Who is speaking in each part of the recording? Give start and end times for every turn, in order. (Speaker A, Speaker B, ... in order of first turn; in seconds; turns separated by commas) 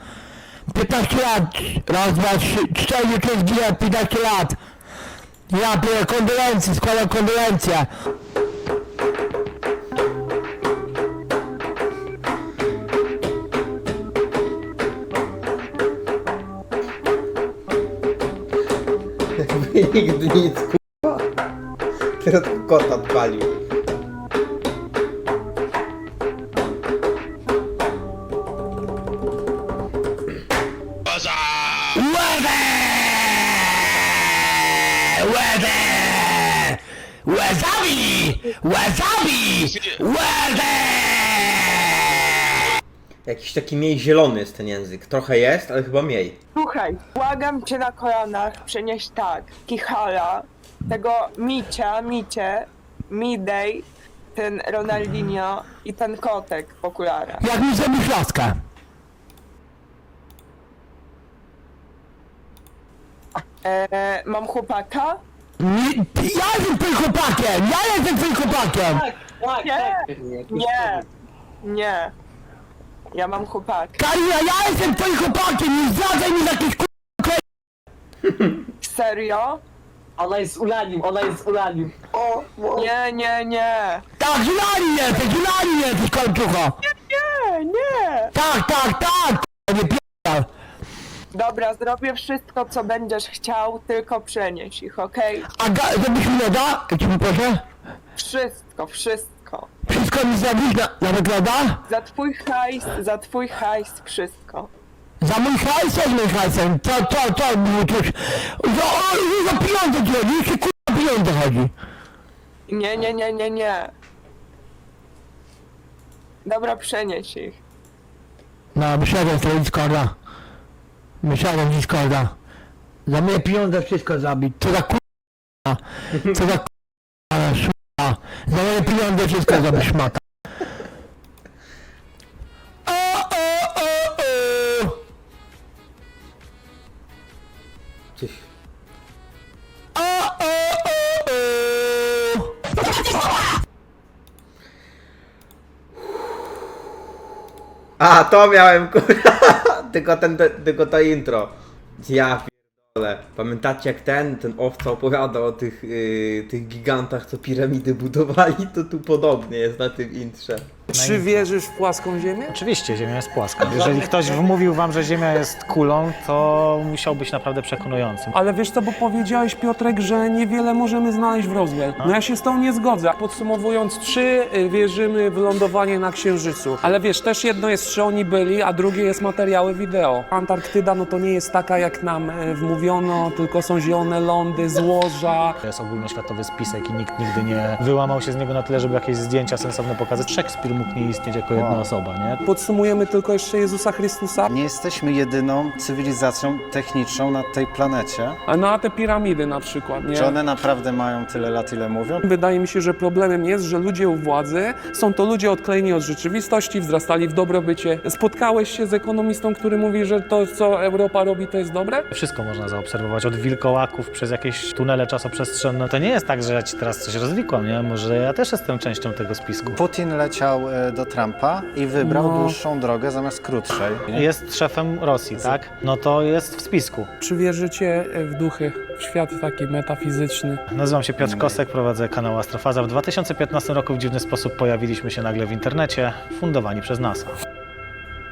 Speaker A: 0.7-4.6, Speaker A: 5.5-7.9, Speaker B: 19.4-21.3, Speaker B: 22.2-23.5, Speaker A: 31.9-42.7, Speaker B: 43.3-46.4, Speaker C: 46.5-57.4, Speaker A: 57.4-58.6, Speaker C: 63.6-65.2, Speaker A: 65.6-69.1, Speaker D: 68.4-71.0, Speaker C: 69.6-71.0, Speaker C: 71.6-72.1, Speaker C: 73.1-73.9, Speaker A: 74.0-77.4, Speaker C: 78.8-79.6, Speaker D: 80.2-81.9, Speaker C: 82.7-84.0, Speaker A: 84.2-86.8, Speaker C: 86.9-88.3, Speaker A: 88.3-90.5, Speaker C: 91.3-95.5, Speaker A: 95.5-97.6, Speaker C: 98.2-99.7, Speaker A: 99.9-101.8, Speaker C: 101.9-104.7, Speaker A: 105.2-111.7, Speaker C: 112.7-113.9, Speaker C: 116.5-117.6, Speaker A: 118.8-120.2, Speaker A: 121.2-122.3, Speaker A: 123.1-125.0, Speaker A: 125.7-126.7, Speaker A: 127.3-130.2, Speaker A: 132.9-135.0, Speaker B: 138.2-138.4, Speaker A: 139.9-143.4, Speaker B: 148.0-160.8, Speaker E: 160.9-162.6, Speaker F: 160.9-161.5, Speaker F: 162.5-168.3, Speaker E: 163.7-164.0, Speaker E: 168.3-185.6, Speaker F: 185.6-192.4, Speaker G: 191.5-191.9, Speaker E: 192.4-194.5, Speaker G: 194.5-198.4, Speaker E: 198.5-200.4, Speaker G: 200.1-202.2, Speaker E: 202.2-212.1, Speaker F: 212.1-219.8, Speaker G: 219.6-224.3, Speaker E: 222.0-222.6, Speaker F: 224.1-227.1, Speaker E: 227.2-230.6, Speaker F: 230.7-237.3, Speaker G: 231.2-231.6